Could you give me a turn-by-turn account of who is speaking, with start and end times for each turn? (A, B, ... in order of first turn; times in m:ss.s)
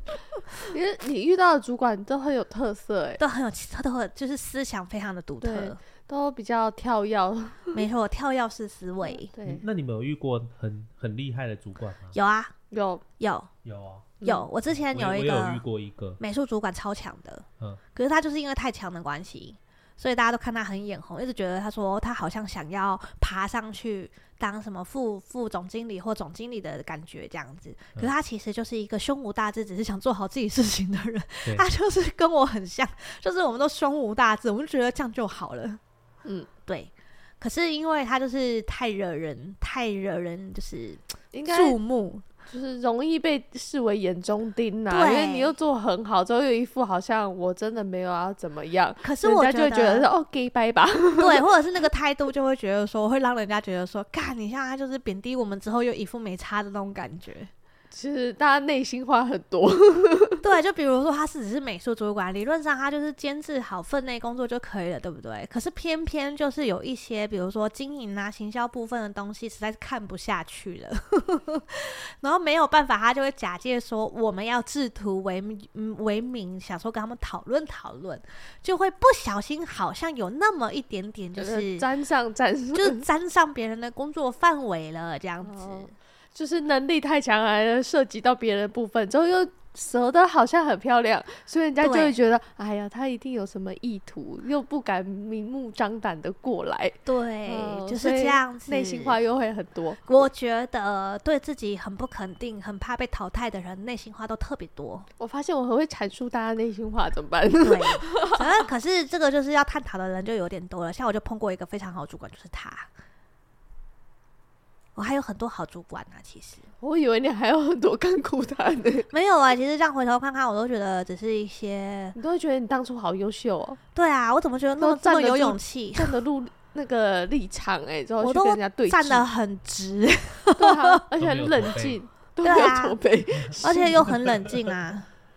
0:00.7-0:03.2 A
0:03.2-0:05.8 B
0:05.4-0:07.8 A
0:07.7-0:09.3 B
0:09.0-0:09.6 A
0:09.5-0:12.2 C
0:12.1-0:12.5 B
0:12.7-0:13.0 A
0:13.2-0:13.5 B
0:13.6-0:16.2 C
0:14.2-0:15.6 B
0:16.2-0:35.8 B
0:36.7-0:42.2 B
0:41.3-0:41.8 A
0:42.5-0:51.4 A
0:44.9-0:45.5 B
0:49.0-0:50.1 B
0:51.2-0:57.5 B
0:57.9-1:00.4 A
1:00.4-1:21.8 B
1:21.4-1:23.0 A
1:22.7-1:25.9 B
1:25.4-1:40.1 A
1:31.8-1:32.1 B
1:37.0-1:39.2 B
1:40.0-1:45.1 B
1:45.2-1:48.4 A
1:47.6-1:52.9 B
1:55.0-1:56.6 B
1:56.8-1:59.1 A
1:59.1-2:02.2 B
2:02.2-2:03.8 A
2:03.9-2:06.1 B
2:04.8-2:09.2 A
2:08.2-2:11.0 B
2:10.6-2:14.2 A
2:11.2-2:12.0 C
2:12.4-2:13.0 B
2:13.6-2:15.1 B